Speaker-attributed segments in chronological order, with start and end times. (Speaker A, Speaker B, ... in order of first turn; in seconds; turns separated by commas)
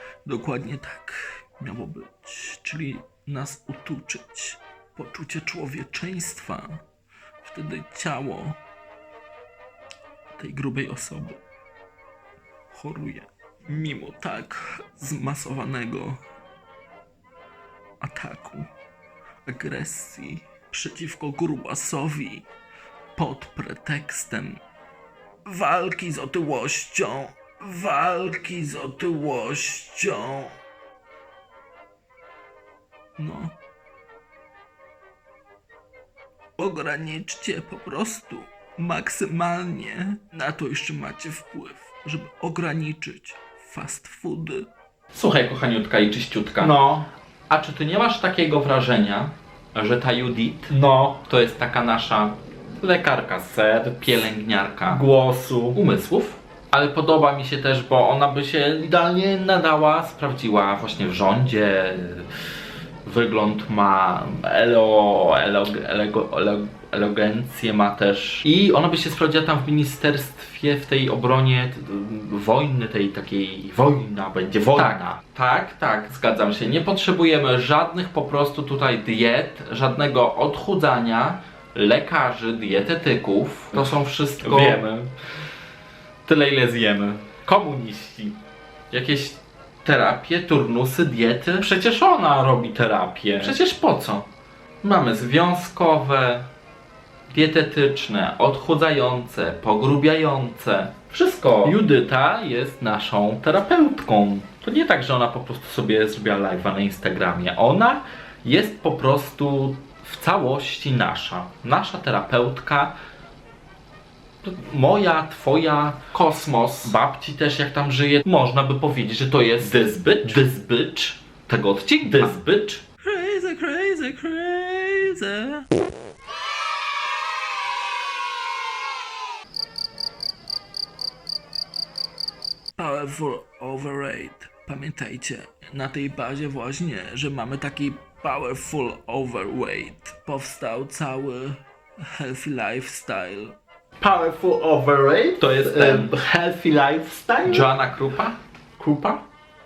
Speaker A: 0.2-6.8, Speaker A: 7.4-8.6, Speaker A: 10.4-11.4, Speaker A: 12.7-16.2, Speaker A: 18.0-18.7, Speaker A: 19.5-22.4, Speaker A: 23.2-24.6, Speaker A: 25.5-30.6, Speaker A: 33.2-33.5, Speaker A: 36.6-44.7, Speaker B: 45.1-55.1, Speaker C: 46.6-47.0, Speaker C: 50.7-51.2, Speaker C: 54.9-55.8, Speaker B: 55.7-62.3, Speaker B: 63.0-85.0, Speaker C: 74.0-75.1, Speaker C: 83.9-85.1, Speaker B: 86.3-88.4, Speaker C: 86.3-87.0, Speaker B: 88.9-94.2, Speaker C: 92.8-93.7, Speaker B: 94.8-96.5, Speaker B: 97.3-112.9, Speaker B: 114.4-122.8, Speaker C: 119.7-120.5, Speaker C: 122.1-122.5, Speaker A: 123.0-125.7, Speaker A: 132.8-143.6, Speaker C: 144.0-147.7, Speaker B: 145.4-146.2, Speaker B: 147.4-149.1, Speaker C: 148.8-149.1